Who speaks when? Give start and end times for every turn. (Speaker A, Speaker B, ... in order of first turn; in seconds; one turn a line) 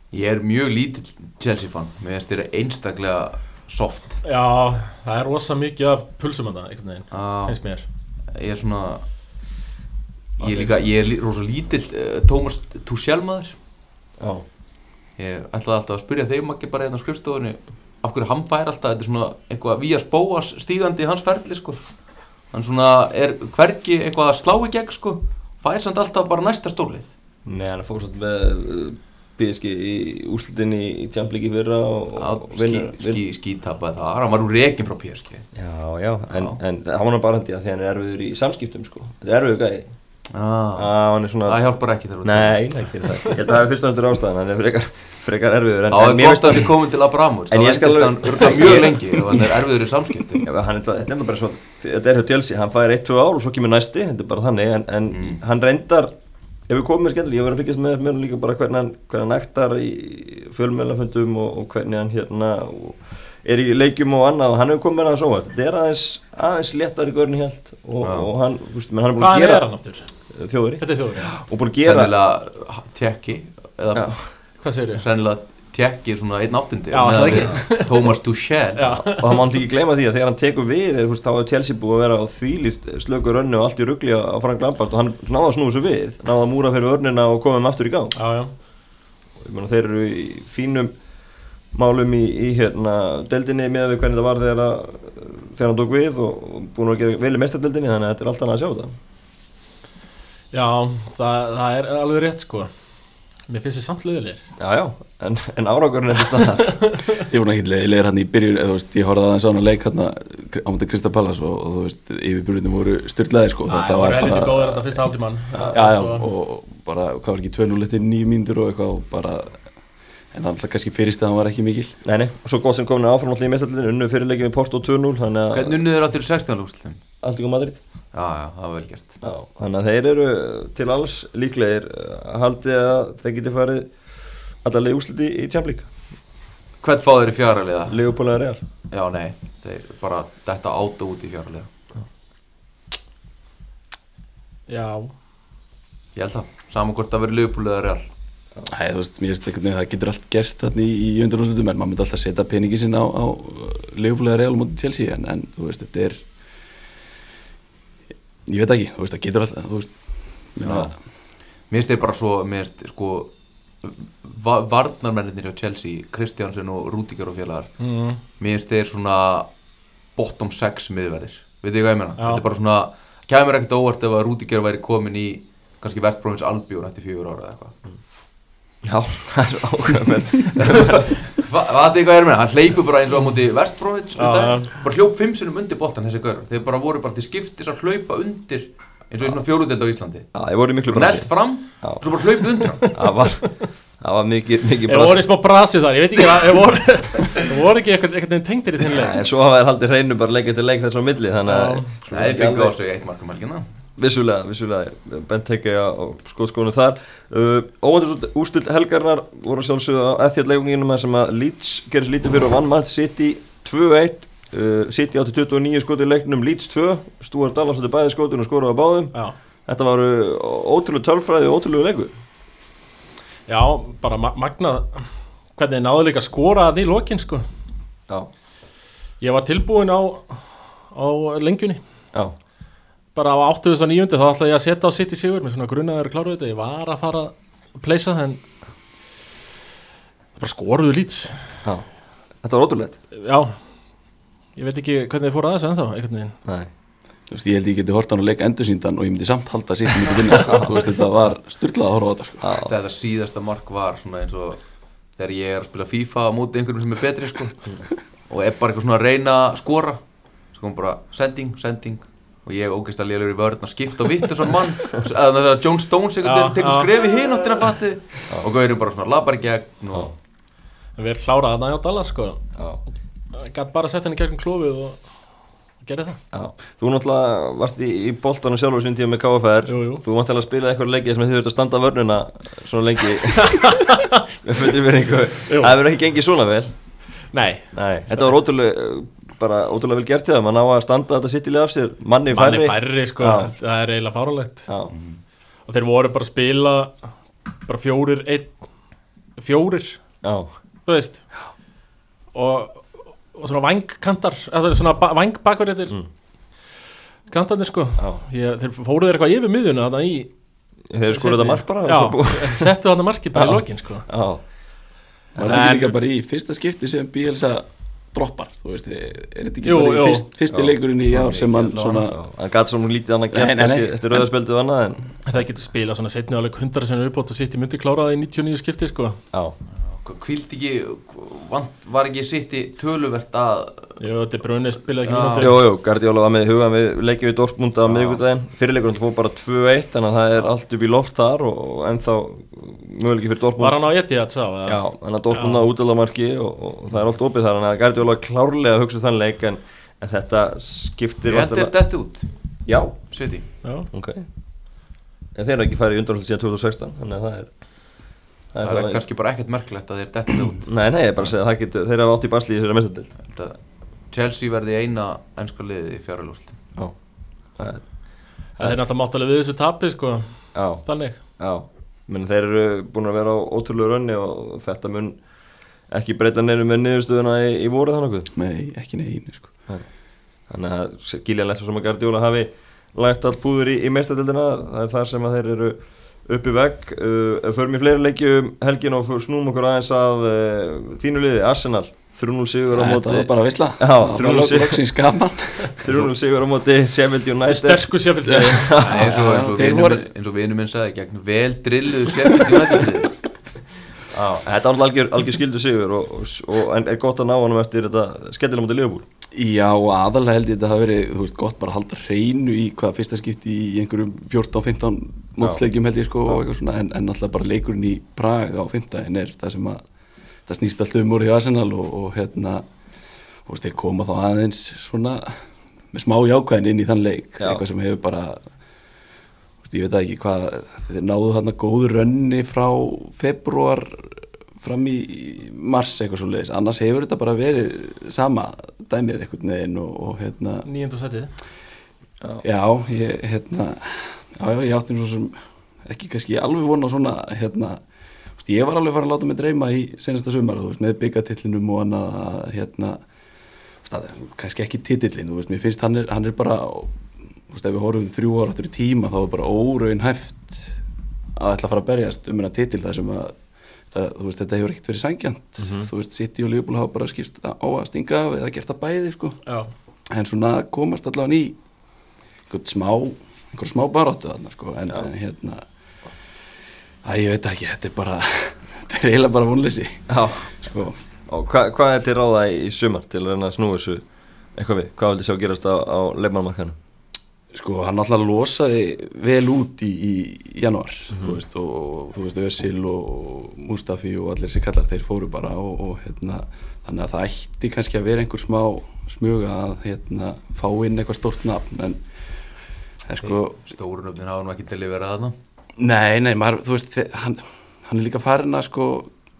Speaker A: 0.1-4.2
Speaker B: 4.2-7.8
Speaker A: 7.1-7.6
Speaker A: 8.3-9.0
Speaker A: 10.4-13.5
Speaker B: 10.4-10.8
Speaker C: 14.2-14.4
Speaker A: 15.2-21.8
Speaker A: 22.5-27.1
Speaker C: 27.4-33.2
Speaker A: 32.1-35.5
Speaker C: 35.5-39.9
Speaker A: 36.3-36.6
Speaker A: 40.3-40.9
Speaker C: 40.8-41.6
Speaker A: 41.4-42.6
Speaker C: 42.2-46.8
Speaker A: 45.9-50.5
Speaker C: 47.5-49.5
Speaker C: 50.4-56.1
Speaker A: 55.1-55.4
Speaker C: 56.7-69.7
Speaker A: 68.0-68.3
Speaker B: 69.2-70.1
Speaker C: 70.3-72.1
Speaker B: 70.8-71.3
Speaker A: 71.8-74.2
Speaker C: 73.9-74.3
Speaker B: 74.6-75.0
Speaker A: 74.9-79.2
Speaker B: 76.9-78.1
Speaker C: 77.3-77.6
Speaker B: 78.8-79.4
Speaker C: 79.1-88.1
Speaker B: 88.1-88.5
Speaker C: 89.4-90.9
Speaker C: 91.7-98.9
Speaker B: 100.5-102.7
Speaker B: 103.5-104.4
Speaker C: 104.6-106.9
Speaker B: 106.8-107.1
Speaker D: 107.3-115.0
Speaker B: 113.7-116.2
Speaker D: 115.7-119.6
Speaker D: 120.3-121.9
Speaker C: 122.0-125.8
Speaker A: 125.5-127.0
Speaker C: 127.2-127.8
Speaker A: 128.1-129.2
Speaker C: 129.2-133.9
Speaker C: 134.6-135.9
Speaker A: 136.8-138.0
Speaker C: 137.9-138.6
Speaker A: 138.9-141.7
Speaker B: 144.7-145.1
Speaker A: 146.1-148.1
Speaker D: 148.7-156.2
Speaker D: 158.4-159.9
Speaker D: 160.5-160.9
Speaker A: 160.6-160.9
Speaker A: 161.7-169.5
Speaker B: 167.8-168.2
Speaker A: 170.2-177.7
Speaker B: 172.2-172.4
Speaker C: 178.8-181.1
Speaker A: 180.6-190.3
Speaker B: 184.2-184.7
Speaker C: 190.3-192.1
Speaker A: 190.9-193.0
Speaker C: 192.8-195.2
Speaker B: 194.9-199.2
Speaker C: 198.9-202.7
Speaker B: 201.4-201.9
Speaker A: 202.1-203.7
Speaker C: 204.0-219.1
Speaker C: 219.7-222.1
Speaker B: 223.5-227.4
Speaker B: 229.2-230.4
Speaker B: 230.9-231.8
Speaker B: 233.1-238.4
Speaker B: 240.4-241.4
Speaker C: 242.4-243.0
Speaker B: 243.1-243.6
Speaker B: 244.6-246.3
Speaker D: 247.3-252.5
Speaker C: 250.4-250.7
Speaker C: 252.4-252.7
Speaker A: 252.6-254.6
Speaker A: 255.2-257.6
Speaker A: 258.3-260.0
Speaker A: 260.5-270.1
Speaker B: 266.2-266.9
Speaker B: 271.0-272.4
Speaker B: 273.3-275.0
Speaker B: 275.8-276.2
Speaker C: 276.3-283.8
Speaker B: 279.6-280.0
Speaker B: 283.4-284.2
Speaker C: 284.4-286.7
Speaker B: 285.5-285.7
Speaker B: 287.3-288.2
Speaker C: 287.7-293.5
Speaker B: 292.3-294.7
Speaker C: 294.7-294.9
Speaker A: 294.9-295.2
Speaker B: 295.7-297.1
Speaker B: 297.6-298.5
Speaker B: 299.4-300.0
Speaker C: 300.2-300.5
Speaker B: 300.9-301.2
Speaker B: 302.3-306.0
Speaker B: 307.3-310.3
Speaker C: 310.9-312.7
Speaker B: 311.1-314.1
Speaker C: 313.3-314.4
Speaker C: 315.3-315.7
Speaker D: 315.4-322.2
Speaker B: 315.4-315.9
Speaker B: 319.6-320.3
Speaker C: 320.5-320.8
Speaker A: 321.1-322.0
Speaker C: 322.1-325.0
Speaker D: 323.3-324.2
Speaker B: 325.2-329.2
Speaker A: 329.8-334.0
Speaker B: 334.0-335.6
Speaker A: 335.0-335.5
Speaker C: 335.4-343.8
Speaker B: 343.6-345.6
Speaker C: 344.6-351.7
Speaker A: 351.2-352.3
Speaker C: 352.6-352.9
Speaker A: 353.1-353.4
Speaker B: 353.6-353.9
Speaker C: 353.9-354.2
Speaker C: 355.3-357.5
Speaker C: 358.5-359.0
Speaker A: 358.6-360.7
Speaker C: 360.7-363.1
Speaker A: 363.2-363.6
Speaker A: 364.1-366.6
Speaker C: 367.6-367.8
Speaker B: 368.6-371.2
Speaker C: 370.5-370.8
Speaker C: 371.4-375.1
Speaker C: 375.9-378.3
Speaker D: 378.3-379.5
Speaker C: 380.5-394.8
Speaker D: 392.7-396.1
Speaker C: 395.8-399.1
Speaker B: 397.5-399.0
Speaker A: 398.8-403.1
Speaker D: 398.9-400.0
Speaker C: 404.1-409.0
Speaker D: 409.3-419.8
Speaker D: 420.5-422.6
Speaker D: 423.4-425.4
Speaker D: 425.9-428.4
Speaker D: 429.6-440.6
Speaker B: 440.6-441.3
Speaker D: 442.4-447.8
Speaker D: 448.4-453.0
Speaker D: 453.8-456.9
Speaker D: 457.5-460.8
Speaker D: 461.4-463.3
Speaker D: 463.9-469.4
Speaker C: 465.6-465.9
Speaker D: 470.1-471.6
Speaker D: 472.5-475.6
Speaker D: 477.0-480.1
Speaker C: 480.1-480.5
Speaker D: 480.6-481.0
Speaker C: 481.3-484.0
Speaker C: 484.6-486.7
Speaker D: 487.5-502.0
Speaker C: 491.1-491.4
Speaker D: 503.0-503.6
Speaker A: 503.2-505.3
Speaker D: 505.8-509.1